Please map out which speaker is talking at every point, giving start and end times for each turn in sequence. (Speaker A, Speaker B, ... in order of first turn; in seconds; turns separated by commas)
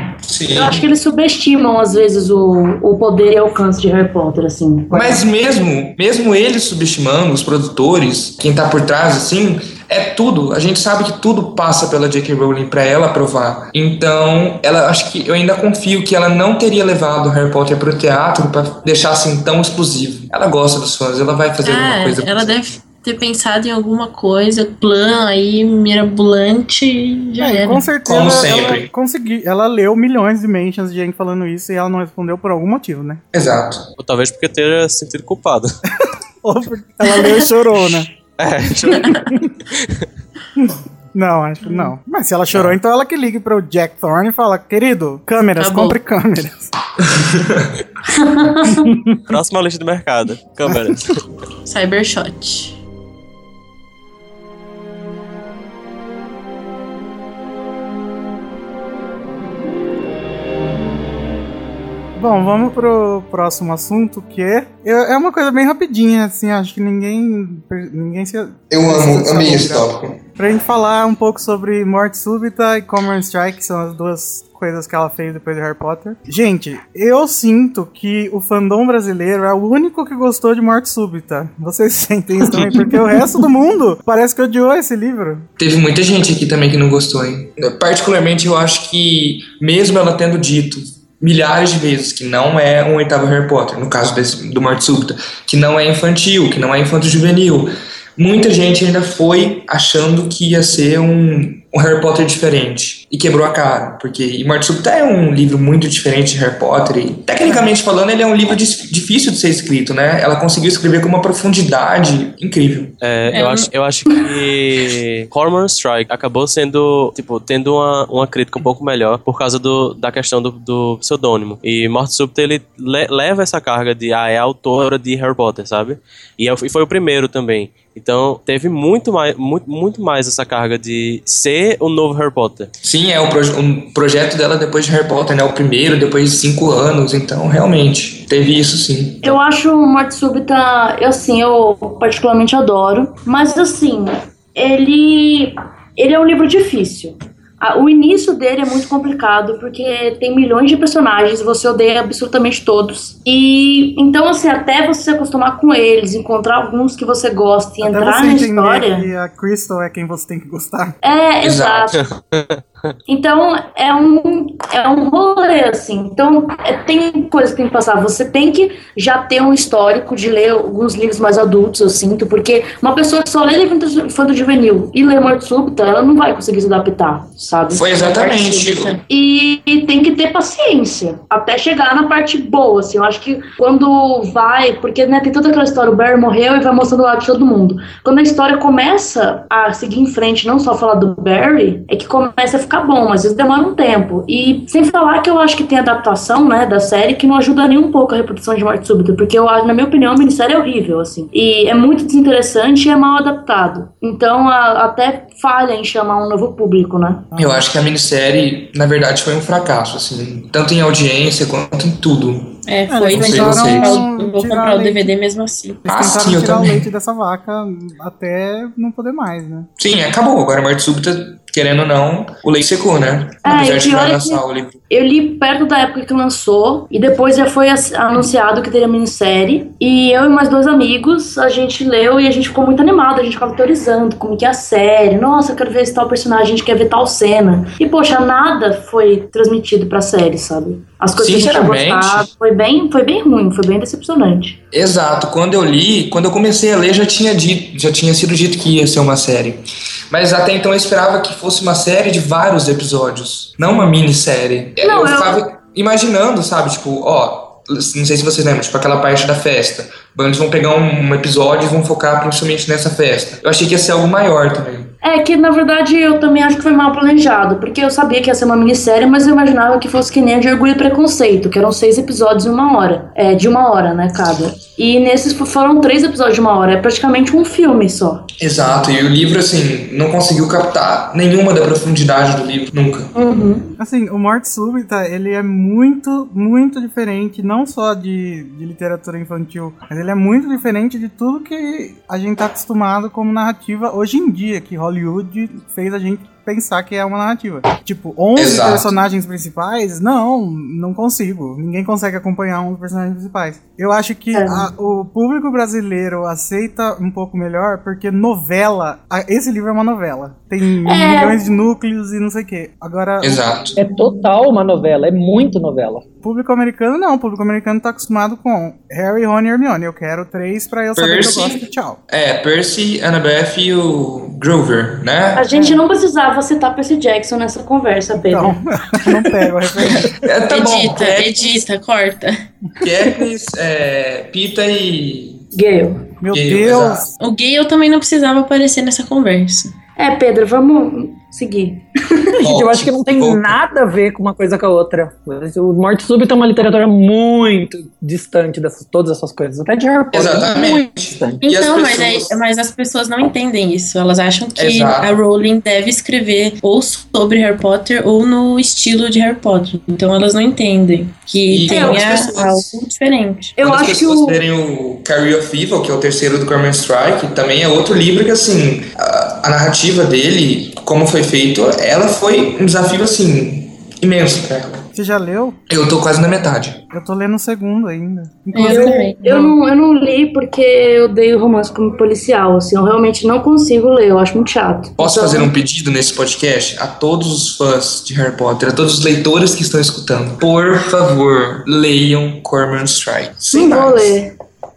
Speaker A: 0.2-0.8, Speaker B: 0.5-5.2, Speaker A: 4.9-22.6, Speaker C: 21.6-27.8, Speaker D: 27.4-33.2, Speaker A: 28.0-28.9, Speaker A: 33.3-33.9, Speaker E: 34.0-35.7, Speaker D: 36.0-38.1, Speaker E: 38.4-40.1, Speaker C: 38.9-39.3, Speaker D: 40.6-46.7, Speaker C: 45.6-46.0, Speaker A: 47.1-47.7, Speaker B: 48.3-48.8, Speaker D: 48.7-49.2, Speaker E: 49.3-51.2, Speaker C: 51.6-52.8, Speaker D: 62.1-85.5, Speaker A: 68.7-70.2, Speaker A: 85.6-112.9, Speaker D: 107.4-107.7, Speaker E: 113.0-132.7, Speaker C: 113.3-113.7, Speaker A: 132.8-139.3, Speaker B: 139.2-159.1, Speaker D: 157.8-161.0, Speaker B: 161.0-162.0, Speaker A: 161.4-161.9, Speaker E: 161.9-162.6, Speaker B: 163.1-177.9, Speaker A: 177.7-179.0, Speaker C: 177.9-179.0, Speaker B: 179.1-207.3, Speaker D: 207.3-207.7, Speaker A: 207.4-214.0, Speaker C: 212.7-215.8, Speaker D: 212.9-215.1, Speaker A: 215.8-216.9, Speaker D: 215.8-219.7, Speaker A: 219.8-224.8, Speaker B: 223.4-244.6, Speaker A: 241.2-242.3, Speaker A: 244.7-264.9, Speaker B: 254.8-255.3, Speaker B: 265.0-278.2, Speaker A: 278.4-283.1, Speaker B: 283.2-283.6, Speaker D: 283.8-313.4, Speaker A: 298.4-298.9, Speaker B: 304.3-304.6, Speaker B: 310.9-311.3, Speaker A: 313.2-313.8, Speaker F: 313.8-316.0, Speaker D: 316.2-322.0, Speaker A: 320.9-325.5, Speaker B: 325.3-328.5, Speaker D: 325.5-325.8, Speaker D: 328.2-330.1, Speaker A: 329.9-331.6, Speaker C: 330.5-332.4, Speaker A: 332.8-335.4, Speaker B: 335.5-336.0, Speaker D: 336.2-337.1, Speaker A: 336.3-337.1, Speaker C: 337.2-339.7, Speaker B: 340.0-341.8, Speaker A: 342.4-343.6, Speaker F: 342.4-351.4, Speaker A: 350.1-352.4, Speaker C: 351.4-363.5, Speaker A: 354.6-355.2, Speaker A: 361.5-362.8, Speaker B: 361.7-362.1, Speaker B: 363.6-364.4, Speaker A: 363.6-374.9, Speaker D: 374.9-375.6, Speaker A: 375.7-376.8, Speaker D: 376.9-379.0, Speaker C: 378.5-379.6, Speaker B: 378.6-385.5, Speaker A: 385.0-394.2, Speaker B: 393.5-394.3